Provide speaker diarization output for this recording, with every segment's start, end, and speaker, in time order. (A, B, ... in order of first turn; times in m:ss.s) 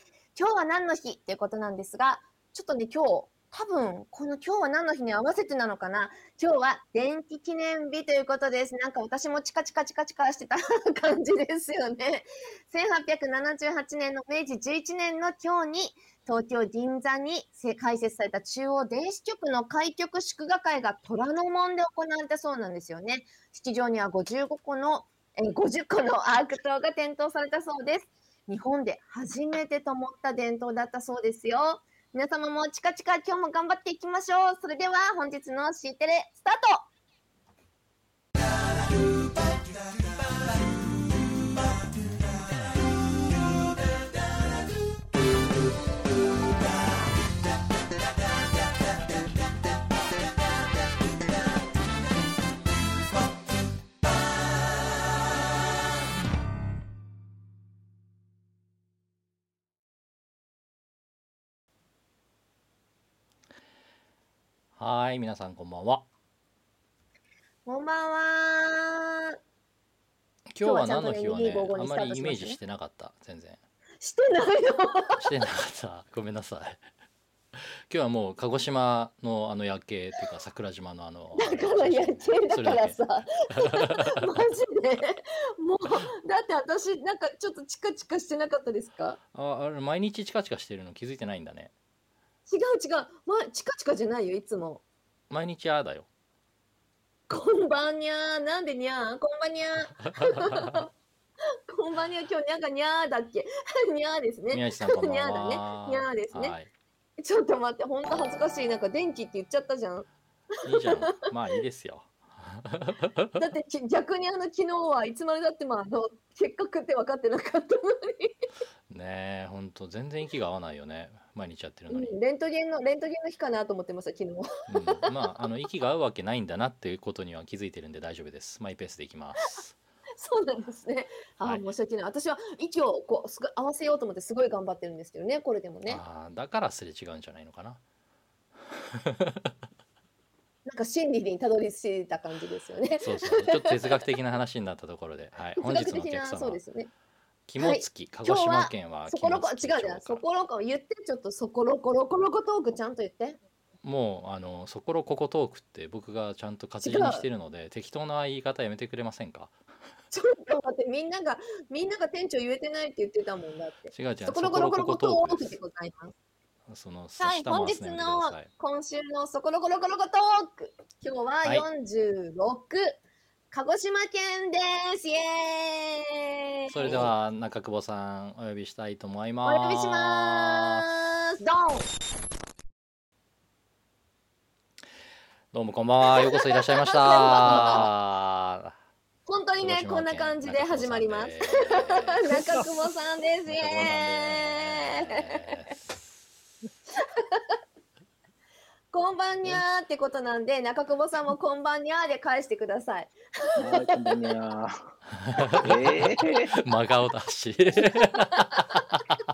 0:00.4-0:36.9 A
1:04.8-1:06.1 B
1:07.7-1:09.2 A
1:10.5-1:13.6 B
1:10.6-1:12.6 A
1:14.0-1:15.2 A
1:15.2-1:16.8 B
1:17.9-1:23.0 B
1:21.4-1:29.2 A
1:23.6-1:23.9 B
1:29.3-1:31.7 B
1:32.5-1:34.8 A
1:35.3-1:36.1 B
1:37.3-1:40.9 A
1:40.4-1:40.7 B
1:41.7-1:46.6 A
1:44.5-1:46.7 B
1:47.2-1:50.1 A
1:50.6-1:53.4 B
1:53.4-1:58.4 A
1:58.9-2:02.2 B
2:01.9-2:05.1 A
2:04.7-2:09.8 B
2:10.2-2:16.0 A
2:15.9-2:17.8 B
2:18.7-2:19.5 B
2:20.7-2:23.9 A
2:23.0-2:26.6 B
2:25.6-2:26.9 A
2:27.5-2:30.2 B
2:27.6-2:33.4 A
2:33.8-2:39.6 B
2:36.8-2:37.3 A
2:40.1-2:46.2 A
2:43.9-2:45.6 B
2:46.7-2:48.5 B
2:47.2-2:53.0 A
2:53.5-2:57.1 A
2:56.7-3:00.9 B
2:56.8-2:57.1 C
2:59.4-3:01.9 A
3:05.5-3:08.8 B
3:06.0-3:07.9 A
3:07.4-3:07.8 C
3:09.3-3:15.6 A
3:09.6-3:12.6 B
3:12.3-3:12.7 C
3:13.5-3:16.0 B
3:17.1-3:17.5 A
3:18.9-3:24.2 A
3:23.6-3:24.9 C
3:25.2-3:29.0 B
3:25.6-3:26.5 C
3:27.8-3:28.8 A